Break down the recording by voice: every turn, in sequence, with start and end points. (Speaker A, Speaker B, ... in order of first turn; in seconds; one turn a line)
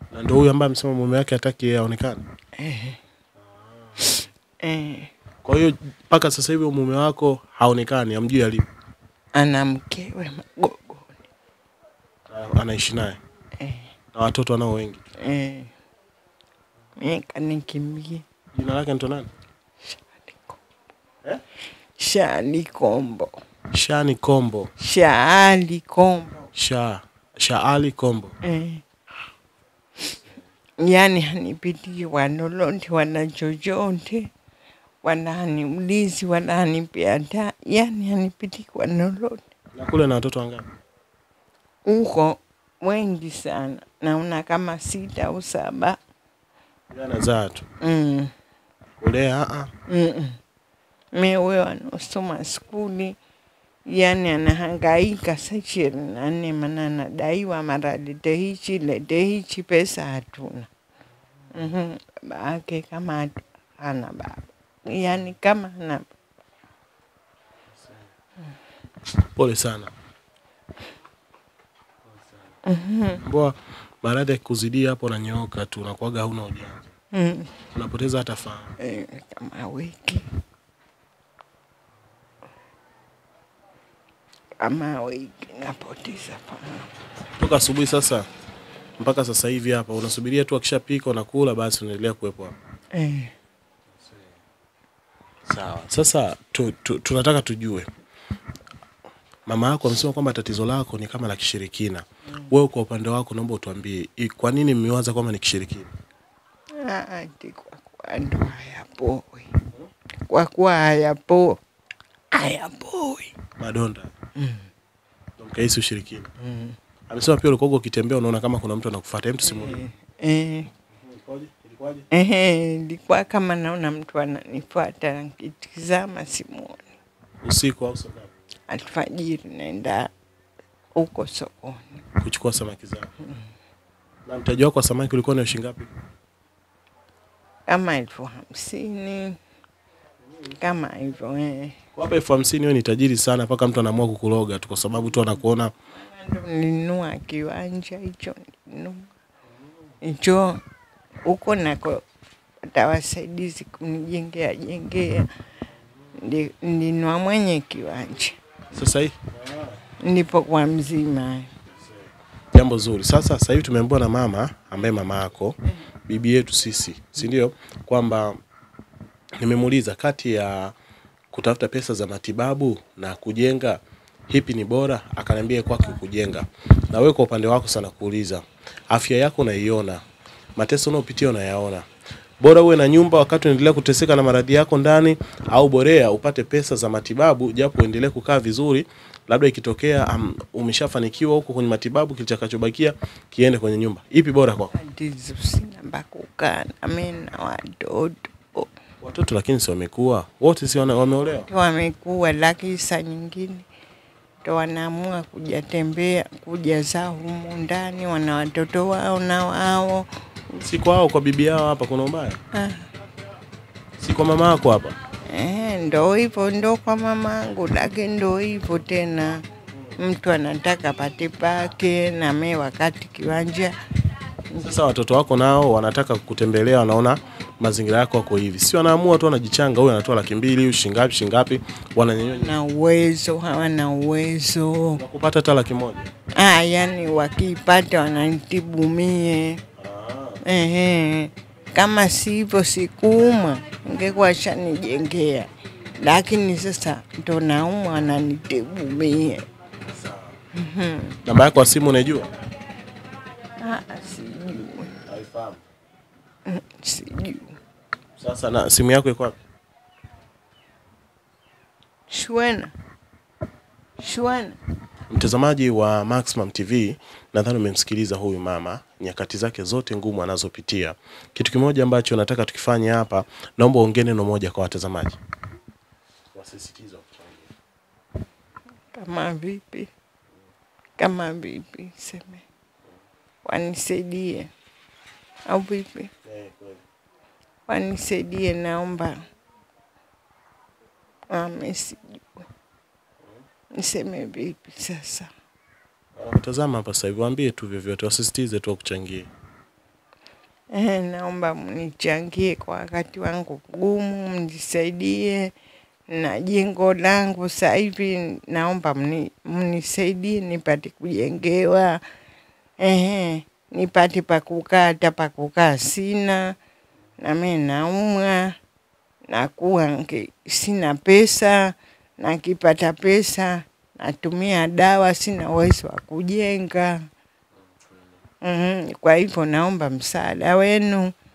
Speaker A: 0.1-2.2
Speaker B: 2.6-3.0
Speaker A: 3.4-4.2
Speaker B: 4.0-5.1
Speaker A: 5.4-8.7
Speaker B: 9.3-11.2
Speaker A: 12.3-13.2
Speaker B: 13.6-13.9
Speaker A: 14.1-15.0
Speaker B: 15.2-15.7
Speaker B: 17.0-18.2
Speaker A: 18.5-19.3
Speaker B: 19.9-20.6
Speaker B: 22.0-23.4
Speaker A: 23.7-24.7
Speaker B: 24.8-26.5
Speaker A: 26.6-28.3
Speaker B: 28.4-28.8
Speaker B: 30.8-34.3
Speaker B: 35.0-39.4
Speaker A: 39.7-40.7
Speaker B: 41.9-46.0
Speaker A: 46.9-47.7
Speaker B: 47.8-48.3
Speaker A: 49.0-49.7
Speaker B: 49.9-50.4
Speaker B: 51.1-53.2
Speaker B: 53.9-60.7
Speaker B: 61.5-66.1
Speaker A: 67.7-68.1
Speaker A: 69.3-69.9
Speaker A: 72.1-72.5
Speaker B: 72.7-73.2
Speaker A: 73.2-76.9
Speaker B: 77.1-77.6
Speaker A: 77.7-78.7
Speaker B: 78.8-80.3
Speaker B: 84.6-86.9
Speaker A: 87.4-88.3
Speaker A: 89.0-92.6
Speaker B: 92.9-93.3
Speaker A: 94.0-94.3
Speaker A: 95.5-97.9
Speaker A: 99.5-105.9
Speaker B: 106.8-109.6
Speaker B: 110.3-111.6
Speaker B: 112.3-113.4
Speaker A: 113.6-114.1
Speaker B: 114.4-114.7
Speaker A: 115.4-116.3
Speaker B: 116.4-116.8
Speaker A: 117.1-119.8
Speaker B: 119.4-120.7
Speaker A: 120.9-122.1
Speaker B: 122.1-126.9
Speaker A: 127.4-128.3
Speaker B: 128.7-130.1
Speaker B: 130.9-132.0
Speaker A: 132.2-133.1
Speaker A: 134.3-135.9
Speaker B: 137.7-139.4
Speaker B: 140.6-141.8
Speaker A: 141.9-145.7
Speaker B: 145.9-149.1
Speaker B: 150.0-150.6
Speaker B: 151.2-152.0
Speaker B: 152.7-155.3
Speaker B: 156.2-158.4
Speaker A: 158.7-159.8
Speaker B: 160.0-161.5
Speaker A: 161.8-168.4
Speaker A: 169.4-170.8
Speaker A: 171.3-180.0
Speaker A: 180.6-181.9
Speaker A: 182.4-194.7
Speaker B: 194.7-198.7
Speaker A: 199.0-201.5
Speaker B: 201.4-203.7
Speaker B: 204.4-210.1
Speaker A: 210.5-212.4
Speaker B: 212.5-212.9
Speaker A: 214.0-215.0
Speaker B: 215.2-219.4
Speaker B: 220.0-223.8
Speaker A: 224.6-232.6
Speaker B: 232.3-235.0
Speaker A: 235.0-236.1
Speaker B: 236.3-239.6
Speaker A: 239.8-240.4
Speaker B: 240.4-249.4
Speaker A: 249.9-250.4
Speaker B: 250.5-251.2
Speaker A: 251.2-252.3
Speaker B: 253.6-255.0
Speaker A: 255.1-255.6
Speaker B: 256.5-257.6
Speaker A: 258.2-259.4
Speaker B: 262.1-262.7
Speaker B: 264.0-264.6
Speaker A: 265.1-275.2
Speaker A: 276.3-277.5
Speaker B: 278.9-279.9
Speaker B: 281.0-282.4
Speaker B: 283.4-284.5
Speaker B: 285.5-286.1
Speaker A: 286.2-286.8
Speaker B: 287.7-289.2
Speaker B: 291.3-292.2
Speaker B: 293.8-295.3
Speaker A: 296.1-299.3
Speaker B: 300.7-305.5
Speaker B: 306.1-312.0
Speaker B: 312.8-316.5
Speaker B: 317.2-318.5
Speaker B: 319.3-327.0
Speaker A: 327.7-328.1
Speaker B: 328.4-331.1